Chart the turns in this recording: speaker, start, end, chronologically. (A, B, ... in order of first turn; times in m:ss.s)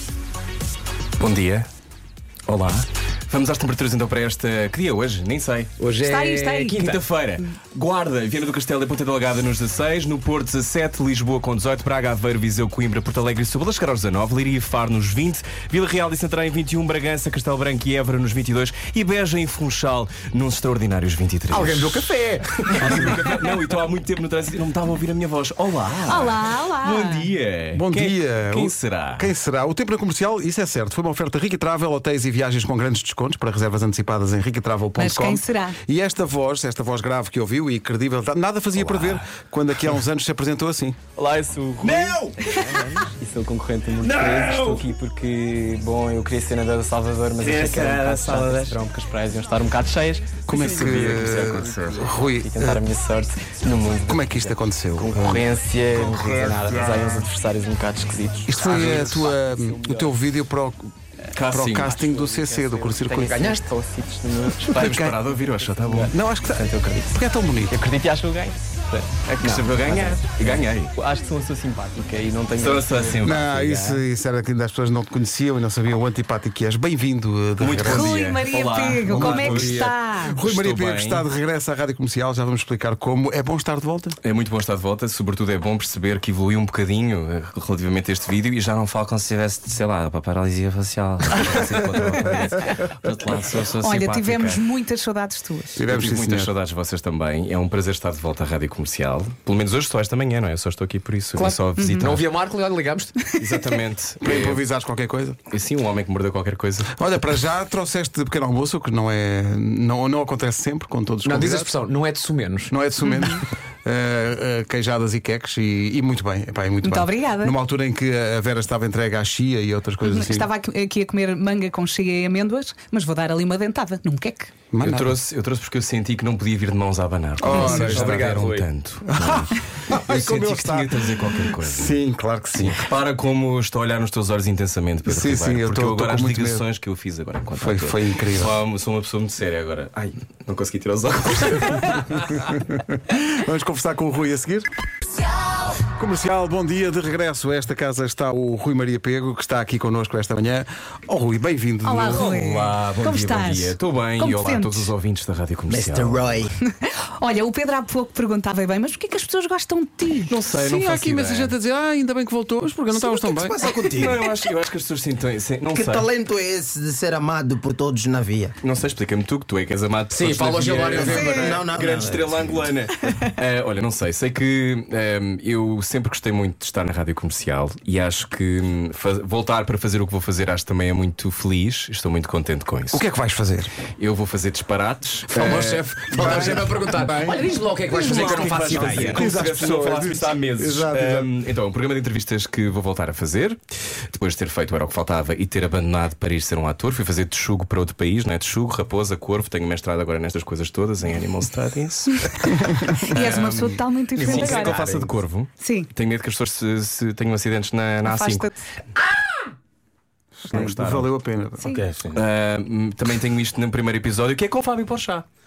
0:01.2-0:01.7 A
0:02.5-0:05.7 A
0:05.8-0:07.0 B
0:06.0-0:06.8 C
0:06.8-0:22.1 A
0:21.5-0:23.2 B
0:22.8-0:29.3 A
0:26.0-0:27.3 C
0:27.7-0:41.0 D
0:35.0-0:35.8 C
0:38.8-0:39.2 A
0:41.2-0:43.3 A
0:41.8-0:44.8 E
0:44.0-0:46.4 A
0:46.3-0:54.5 E
0:47.4-0:50.0 A
0:50.5-0:52.8 D
0:50.6-0:52.1 A
0:54.0-0:55.5 D
0:55.3-1:00.1 E
0:56.1-0:57.1 A
0:58.5-1:00.9 D
0:58.6-0:59.3 A
1:01.3-1:02.0 A
1:01.5-1:03.7 D
1:02.0-1:06.1 E
1:04.7-1:06.1 A
1:04.7-1:05.2 D
1:06.0-1:07.8 D
1:06.7-1:07.1 E
1:07.8-1:13.9 E
1:09.4-1:11.0 A
1:12.5-1:13.5 A
1:13.2-1:18.2 D
1:17.6-1:21.3 A
1:17.9-1:20.4 C
1:19.0-1:24.2 D
1:24.2-1:34.6 A
1:33.8-1:35.8 C
1:35.8-1:36.5 D
1:35.9-1:42.2 A
1:41.4-1:43.2 B
1:41.8-1:42.1 C
1:43.2-1:43.5 C
1:43.4-1:44.6 A
1:44.2-1:45.4 D
1:45.5-1:47.0 A
1:47.0-1:51.7 D
1:51.2-1:52.7 B
1:52.7-2:00.5 D
1:53.0-1:53.4 C
1:56.8-1:57.6 C
2:00.0-2:04.5 C
2:04.7-2:05.2 D
2:04.8-2:12.0 A
2:07.4-2:08.3 D
2:07.6-2:08.7 B
2:09.1-2:12.8 D
2:12.6-2:22.4 A
2:15.1-2:16.6 D
2:17.6-2:18.6 D
2:22.4-2:24.7 D
2:25.9-2:32.7 D
2:31.8-2:34.9 C
2:32.1-2:36.3 A
2:35.7-2:36.5 F
2:36.6-2:40.3 C
2:40.3-2:41.5 A
2:40.5-2:43.6 D
2:42.9-2:44.3 F
2:43.9-2:46.1 A
2:45.7-2:48.5 F
2:48.6-3:03.0 A
2:50.1-2:51.7 B
2:50.9-2:52.7 F
2:51.1-2:51.6 C
3:02.9-3:03.7 D
3:04.0-3:06.5 A
3:05.3-3:09.2 B
3:05.4-3:07.6 D
3:07.9-3:09.3 F
3:08.0-3:13.6 A
3:09.0-3:11.3 D
3:14.1-3:28.5 A
3:23.1-3:24.8 C
3:24.2-3:25.2 B
3:25.6-3:25.9 C
3:28.0-3:28.7 C
3:30.4-3:31.7 D
3:30.5-3:31.1 A
3:31.6-3:32.2 F
3:32.1-3:35.2 A